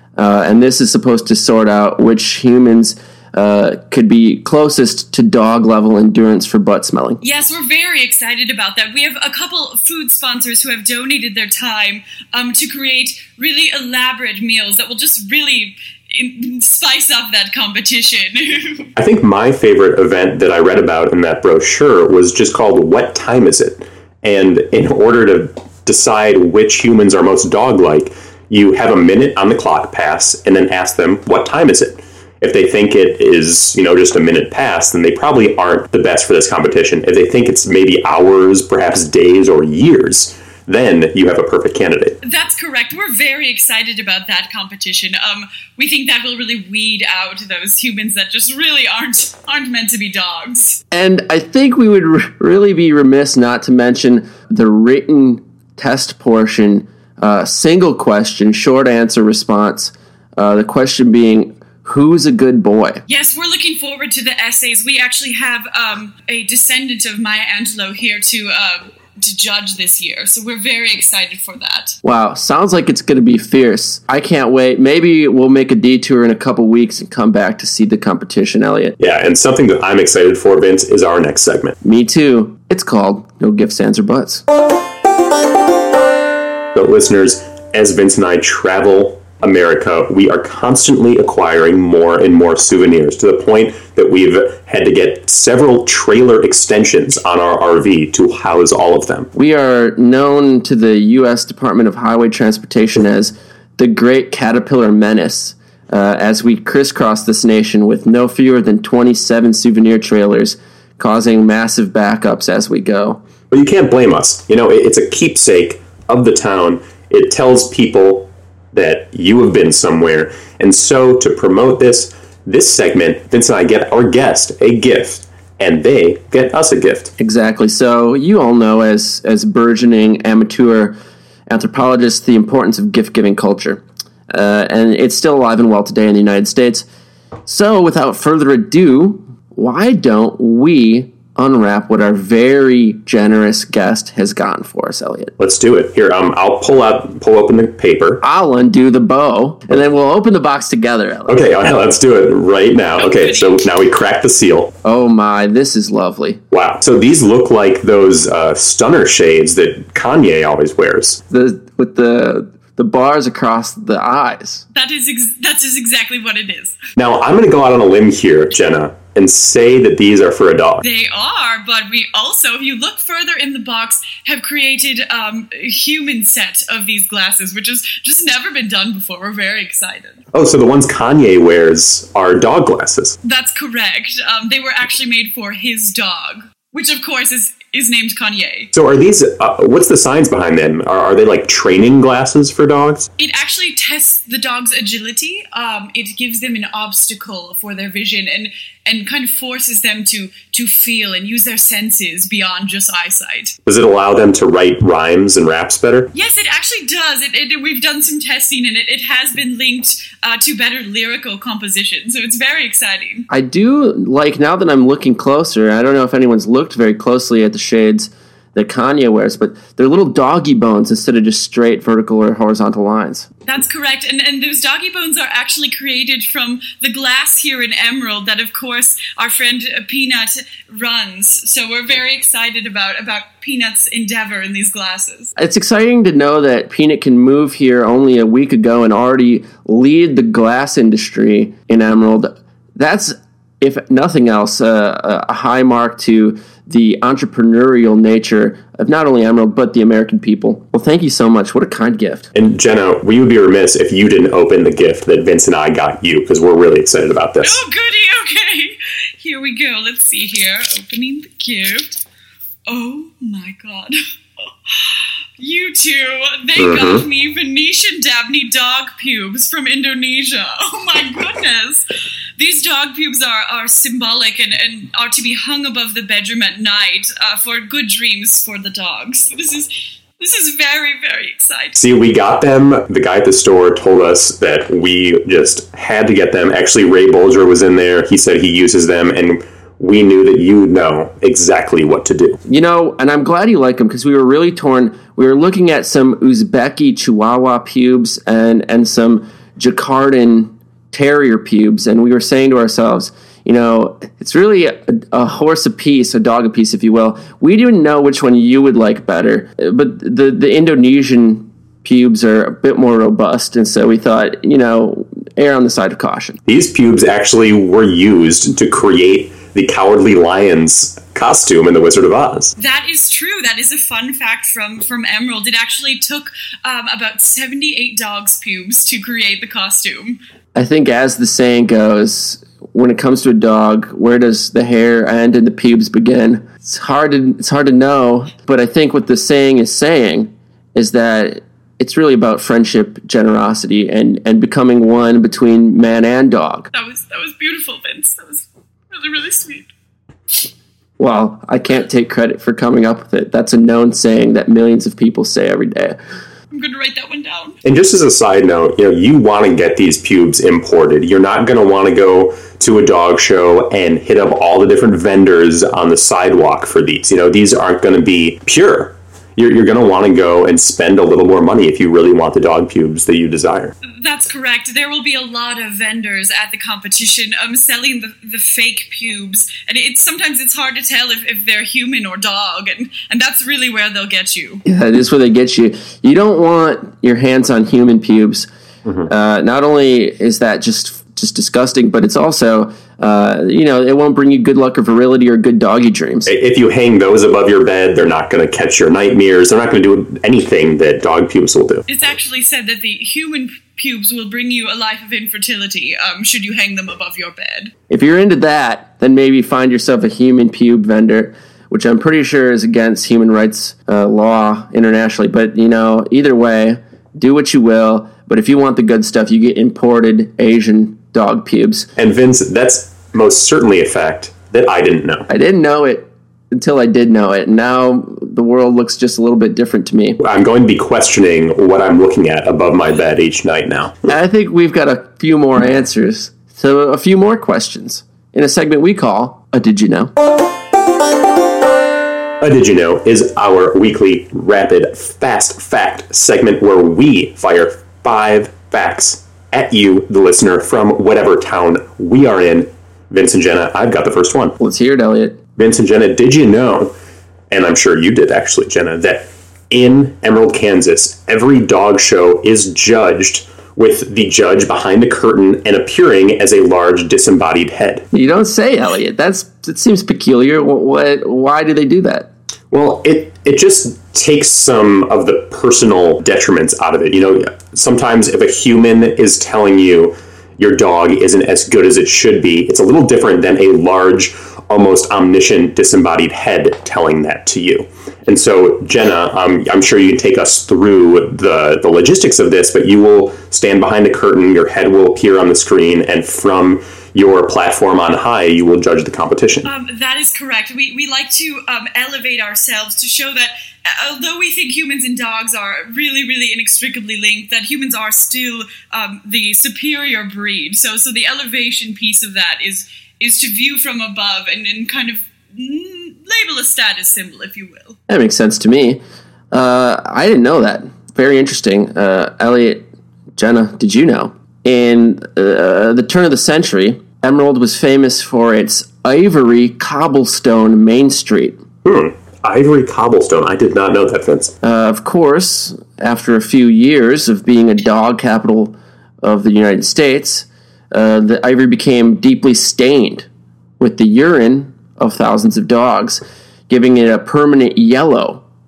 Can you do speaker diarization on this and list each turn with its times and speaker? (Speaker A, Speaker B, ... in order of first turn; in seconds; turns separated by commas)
Speaker A: 0.2-7.2, Speaker B: 7.2-18.9, Speaker C: 19.0-42.2, Speaker B: 42.2-50.8, Speaker A: 50.9-63.0, Speaker B: 63.1-72.0, Speaker A: 72.0-79.0, Speaker C: 79.0-81.8, Speaker A: 81.8-84.4, Speaker C: 86.8-99.3, Speaker A: 99.3-113.2, Speaker C: 113.5-127.1, Speaker A: 127.2-131.0, Speaker A: 131.5-136.8, Speaker A: 137.5-145.3, Speaker C: 145.4-148.2, Speaker A: 148.2-151.4, Speaker C: 151.3-154.7, Speaker B: 153.0-153.7, Speaker A: 154.8-156.4, Speaker C: 156.5-161.2, Speaker A: 161.3-164.7, Speaker B: 164.7-166.8, Speaker C: 167.0-170.8, Speaker B: 170.8-180.2, Speaker C: 180.3-183.2, Speaker B: 183.2-188.7, Speaker C: 188.7-193.1, Speaker B: 193.2-203.6, Speaker C: 203.7-206.1, Speaker B: 206.1-213.3, Speaker A: 213.3-223.3, Speaker B: 223.5-235.3, Speaker A: 235.4-252.3, Speaker C: 252.3-257.6, Speaker B: 257.4-261.9, Speaker B: 262.7-264.0, Speaker B: 264.7-271.9, Speaker C: 266.6-267.1, Speaker B: 272.4-281.8, Speaker C: 281.8-292.4, Speaker A: 292.5-316.4, Speaker C: 316.5-322.6, Speaker B: 322.6-330.2, Speaker A: 330.6-346.7, Speaker B: 346.7-349.7, Speaker A: 351.0-356.0, Speaker B: 356.5-357.6, Speaker C: 357.6-373.8, Speaker B: 373.8-384.6, Speaker A: 384.7-388.5, Speaker A: 389.1-396.3, Speaker C: 396.3-401.9, Speaker B: 401.9-407.7, Speaker A: 407.9-421.9, Speaker C: 422.0-425.3, Speaker A: 425.3-430.2, Speaker C: 430.2-434.1, Speaker A: 434.1-440.1, Speaker C: 442.4-454.6, Speaker A: 454.6-455.4, Speaker C: 455.6-456.9, Speaker C: 457.5-468.1, Speaker A: 468.1-472.3, Speaker C: 472.7-499.7, Speaker B: 499.6-518.0, Speaker A: 518.1-519.0, Speaker A: 519.5-531.6, Speaker C: 531.9-534.5, Speaker A: 534.6-543.3, Speaker A: 543.8-548.4